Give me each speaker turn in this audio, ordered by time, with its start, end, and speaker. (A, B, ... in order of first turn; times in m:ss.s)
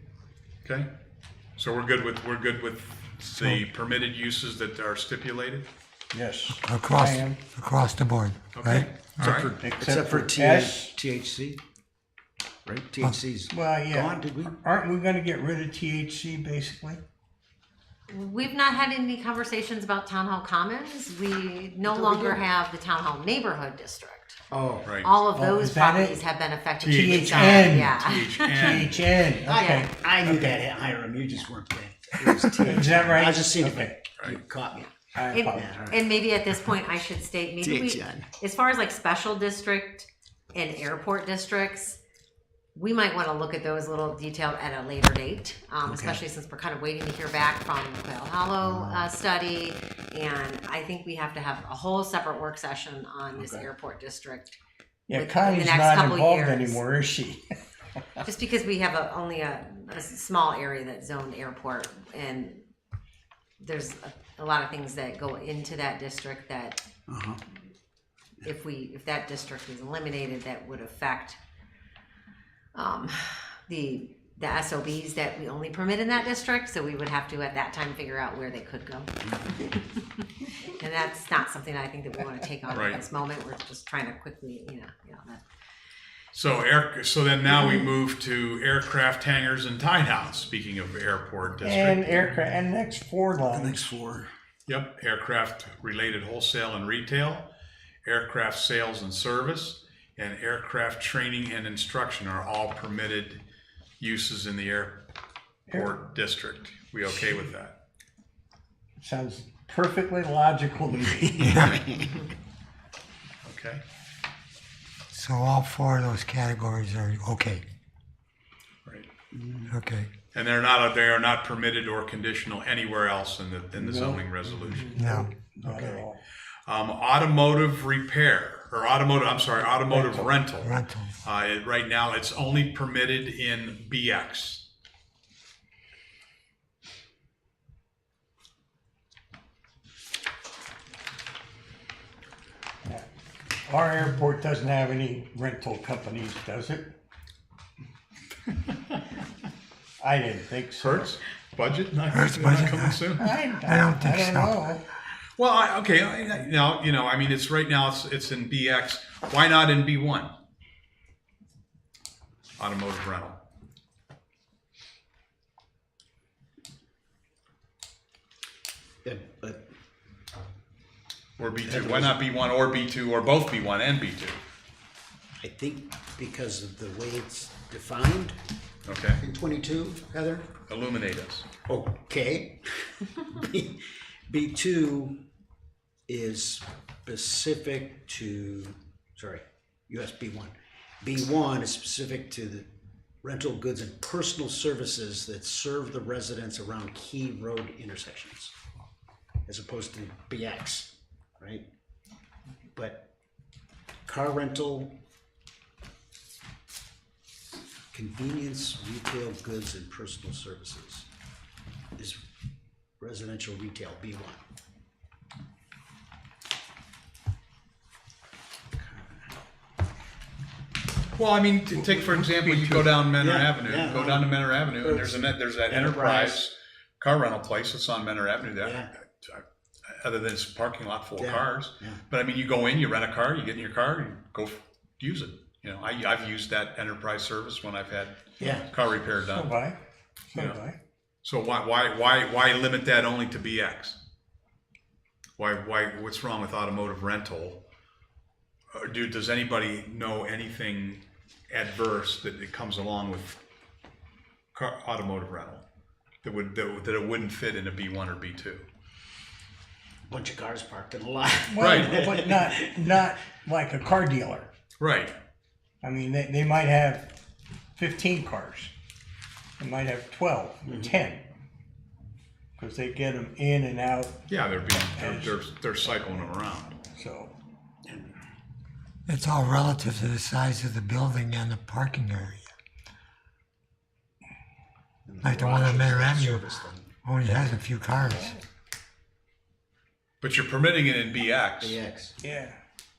0:00.6-0:00.9 A
0:01.6-0:05.7 A
0:03.3-0:03.7 B
0:06.1-0:07.4 C
0:06.6-0:08.9 B
0:08.5-0:09.5 A
0:09.3-0:11.6 D
0:09.6-0:10.9 C
0:12.6-0:14.6 D
0:13.5-0:17.0 C
0:18.1-0:24.4 E
0:21.9-0:22.4 D
0:24.5-0:24.9 D
0:24.8-0:25.1 A
0:25.0-0:29.9 E
0:25.3-0:26.2 C
0:26.8-0:29.0 A
0:26.9-0:28.0 C
0:28.6-0:30.6 C
0:29.4-0:34.9 D
0:32.6-0:34.0 C
0:35.2-0:35.8 C
0:35.3-0:42.0 E
0:35.5-0:36.7 D
0:37.6-0:38.3 D
0:42.8-0:54.6 E
0:45.8-0:46.2 D
0:48.6-0:49.1 D
0:53.4-0:53.7 D
0:55.1-0:57.4 C
0:55.1-0:56.8 E
0:58.2-1:02.6 E
1:03.6-1:06.8 E
1:07.1-1:07.4 D
1:08.4-1:11.4 E
1:12.8-1:20.0 E
1:20.7-1:25.4 E
1:22.7-1:23.0 A
1:26.3-1:32.3 A
1:31.6-1:34.0 C
1:33.5-1:34.3 D
1:34.7-1:37.5 A
1:38.0-1:43.4 A
1:44.0-1:45.1 A
1:45.7-1:47.8 A
1:45.7-1:46.0 C
1:49.0-1:51.8 C
1:51.2-1:52.0 D
1:51.4-1:51.8 B
1:53.4-1:53.8 A
1:55.1-1:57.6 B
1:59.3-1:59.7 D
1:59.7-2:00.1 B
2:00.3-2:05.0 A
2:03.8-2:06.2 C
2:05.0-2:05.3 B
2:05.5-2:06.1 A
2:06.7-2:14.7 A
2:09.7-2:10.3 C
2:10.6-2:11.1 B
2:23.7-2:26.9 C
2:30.0-2:31.2 C
2:30.8-2:33.2 A
2:32.1-2:34.6 B
2:33.2-2:34.9 C
2:35.4-2:40.4 A
2:42.6-2:43.4 A
2:49.0-2:49.7 D
2:51.4-2:54.4 A
2:51.6-2:52.2 D
2:55.4-2:58.4 D
2:58.8-2:59.2 A
2:59.2-3:00.5 D
3:00.7-3:01.5 A
3:01.7-3:05.2 D
3:06.1-3:12.7 D
3:13.2-3:18.5 D
3:19.5-3:21.6 D
3:22.7-3:23.1 D
3:24.1-3:25.0 D
3:27.9-3:31.1 D
3:33.0-3:34.4 D
3:41.1-3:59.5 A
3:41.9-3:42.8 C
3:43.1-3:46.5 D
3:48.6-3:48.9 D
3:51.2-3:52.0 D
3:58.4-3:58.7 D
3:59.2-3:59.8 C
4:00.3-4:00.8 C
4:00.3-4:00.6 A
4:01.2-4:04.0 A
4:05.4-4:07.6 A
4:08.7-4:13.4 A
4:14.5-4:15.6 A
4:16.2-4:18.7 A
4:20.1-4:22.7 D
4:21.5-4:24.5 C
4:21.6-4:22.0 A
4:24.8-4:25.2 A
4:25.8-4:27.1 C
4:27.8-4:28.7 C
4:29.6-4:31.3 C
4:30.7-4:31.0 D
4:32.6-4:34.2 C
4:34.3-4:36.8 A
4:35.0-4:35.4 C
4:36.9-4:37.3 C
4:37.9-4:38.2 D
4:39.1-4:42.5 B
4:45.1-4:46.9 D
4:45.2-4:46.5 B
4:47.0-4:48.3 B
4:48.1-4:48.4 C
4:50.2-4:51.8 A
4:51.6-4:52.2 D
4:52.2-4:52.6 C